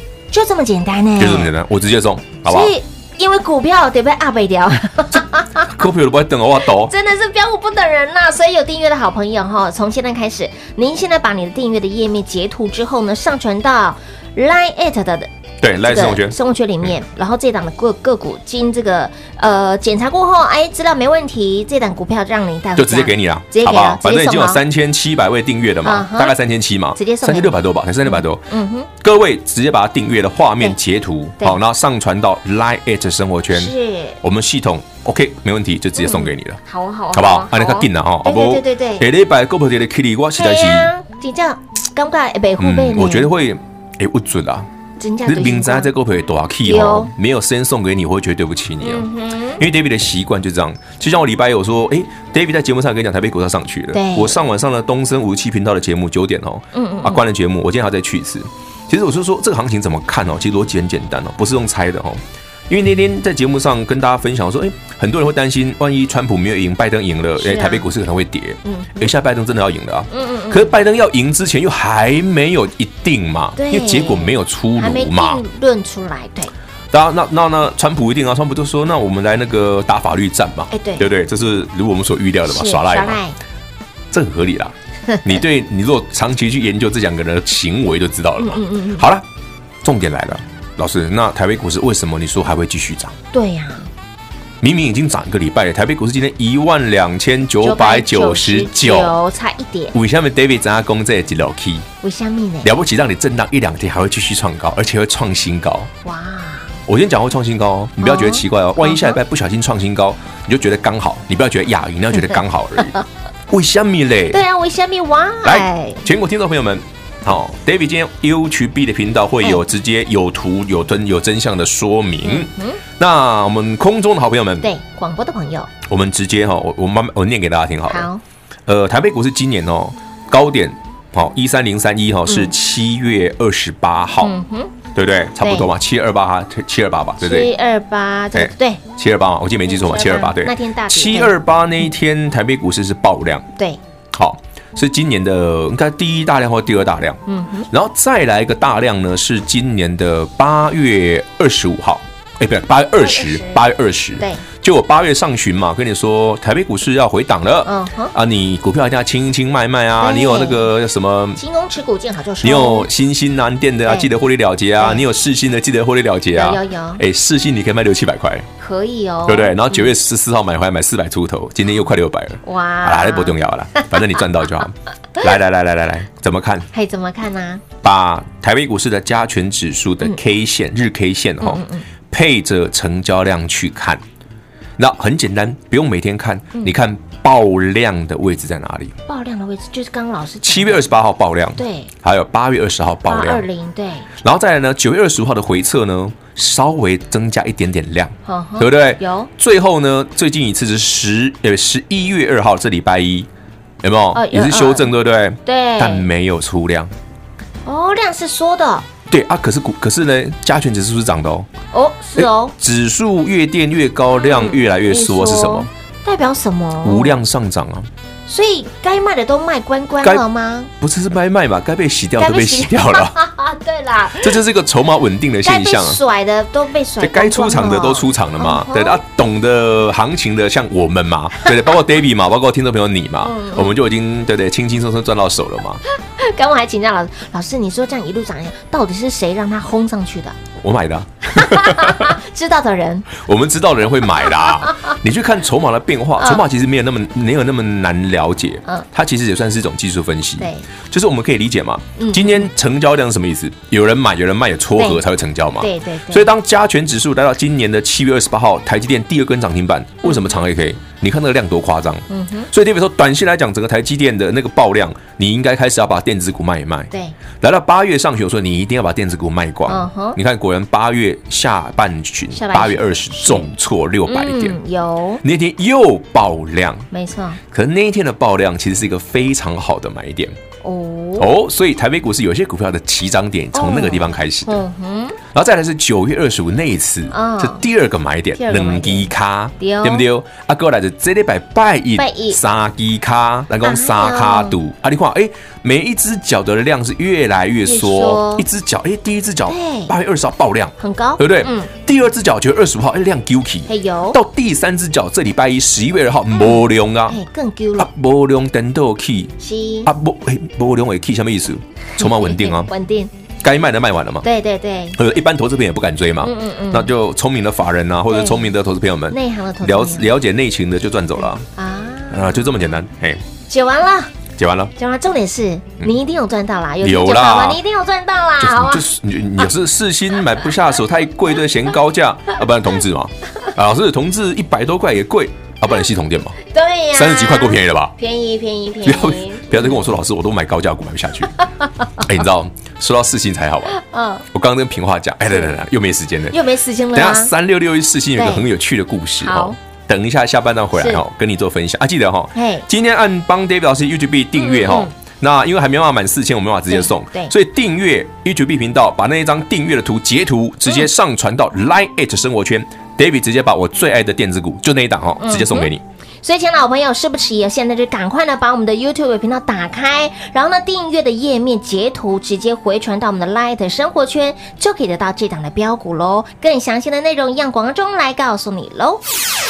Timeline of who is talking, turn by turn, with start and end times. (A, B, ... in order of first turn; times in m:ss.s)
0:00.3-0:01.5 A
0:01.2-0:02.7 B
0:02.4-0:05.8 A
0:05.7-0:06.9 B
0:06.8-0:24.6 A
0:15.6-0:16.4 B
0:22.8-0:28.4 B
0:25.8-0:26.3 A
0:27.0-0:28.9 A
0:29.0-0:36.6 B
0:33.5-0:34.2 A
0:36.0-0:39.0 A
0:37.1-0:40.9 B
0:40.4-0:43.3 A
0:42.6-0:44.7 B
0:45.0-0:45.9 A
0:45.2-0:49.1 B
0:46.6-0:47.1 A
0:48.8-0:49.6 A
0:49.6-1:15.4 B
0:53.9-0:54.4 A
0:56.7-0:57.2 A
1:07.4-1:07.8 A
1:08.6-1:09.1 A
1:10.1-1:10.7 A
1:13.6-1:16.5 A
1:16.9-1:23.2 B
1:20.7-1:21.1 A
1:22.5-1:23.4 A
1:24.1-1:29.2 B
1:28.4-1:29.0 A
1:29.8-1:33.2 B
1:33.3-1:33.9 A
1:34.6-1:39.1 B
1:37.6-1:39.9 A
1:39.9-1:41.9 B
1:42.0-1:42.7 A
1:42.6-1:45.9 B
1:46.0-1:46.7 A
1:46.9-1:53.0 B
1:48.0-1:49.2 A
1:53.5-1:54.4 B
1:54.3-1:56.0 A
1:55.4-2:04.7 B
2:02.2-2:02.8 A
2:04.6-2:05.7 A
2:05.8-2:08.1 B
2:07.9-2:08.2 A
2:08.7-2:14.3 B
2:12.3-2:12.5 A
2:14.2-2:14.7 A
2:14.9-2:17.5 B
2:15.4-2:15.7 A
2:17.2-2:18.8 A
2:18.3-2:23.4 B
2:19.7-2:21.4 A
2:24.1-2:41.4 B
2:27.3-2:27.7 A
2:33.0-2:33.6 A
2:34.2-2:34.4 A
2:37.6-2:38.1 A
2:40.0-2:40.6 A
2:41.4-2:42.9 A
2:42.4-2:48.5 B
2:44.8-2:45.0 A
2:46.3-2:47.0 A
2:48.6-2:49.9 A
2:49.2-2:56.7 B
2:52.4-2:53.9 A
2:56.7-2:57.6 A
2:57.8-3:04.0 B
3:01.4-3:01.8 A
3:04.8-3:09.0 B
3:09.1-3:10.9 A
3:10.4-3:13.4 B
3:11.6-3:11.9 A
3:13.0-3:14.1 A
3:14.2-3:23.3 B
3:18.2-3:19.3 A
3:23.8-3:26.9 B
3:24.1-3:24.9 A
3:25.4-3:26.1 A
3:27.6-3:28.8 A
3:29.1-3:31.5 B
3:31.7-3:32.5 A
3:32.2-3:35.7 B
3:34.1-3:37.2 A
3:36.8-3:37.9 B
3:38.3-3:40.7 A
3:40.8-3:43.2 B
3:42.2-3:44.4 A
3:44.1-3:46.0 B
3:45.4-3:49.0 A
3:47.0-3:55.8 B
3:53.2-3:53.8 A
3:56.2-4:00.4 A
4:00.6-4:02.2 B
4:01.3-4:03.1 A
4:03.1-4:34.6 B
4:10.4-4:10.6 A
4:12.0-4:12.5 A
4:14.8-4:15.0 A
4:15.6-4:16.3 A
4:20.0-4:20.3 A
4:22.1-4:22.5 A
4:29.7-4:30.2 A
4:32.3-4:33.5 A
4:34.0-4:35.2 A
4:35.2-4:36.8 B
4:36.9-4:37.4 A
4:37.5-4:40.4 B
4:40.6-4:41.3 A
4:41.2-4:44.6 B
4:43.5-4:45.2 A
4:45.2-5:07.2 B
4:47.1-4:47.6 A
4:48.4-4:50.0 A
4:52.0-4:52.4 A
4:53.6-4:54.6 A
4:57.6-4:58.4 A
4:59.5-4:59.9 A
5:00.8-5:01.7 A
5:03.7-5:04.2 A
5:07.1-5:07.9 A
5:07.8-5:09.3 B
5:09.4-5:09.9 A
5:09.8-5:12.7 B
5:12.0-5:13.1 A
5:13.4-5:14.2 B
5:14.2-5:15.0 A
5:15.0-5:21.4 B
5:16.2-5:16.9 A
5:18.1-5:18.5 A
5:19.1-5:20.1 A
5:21.5-5:22.4 A
5:22.1-5:23.2 B
5:23.5-5:24.1 A
5:24.4-5:24.7 B
5:24.8-5:28.8 A
5:26.8-5:27.6 B
5:28.4-5:36.4 B
5:36.5-5:39.8 A
5:36.9-5:37.9 B
5:38.8-5:41.3 B
5:42.0-5:43.8 B
5:43.7-5:44.2 A
5:44.3-5:46.4 B
5:46.3-5:47.3 A
5:46.9-6:05.8 B
5:48.2-5:48.4 A
5:49.2-5:49.5 A
5:50.8-5:51.0 A
5:52.3-5:52.7 A
5:54.4-5:54.9 A
5:56.7-5:57.3 A
6:05.2-6:05.7 A
6:06.2-6:19.0 A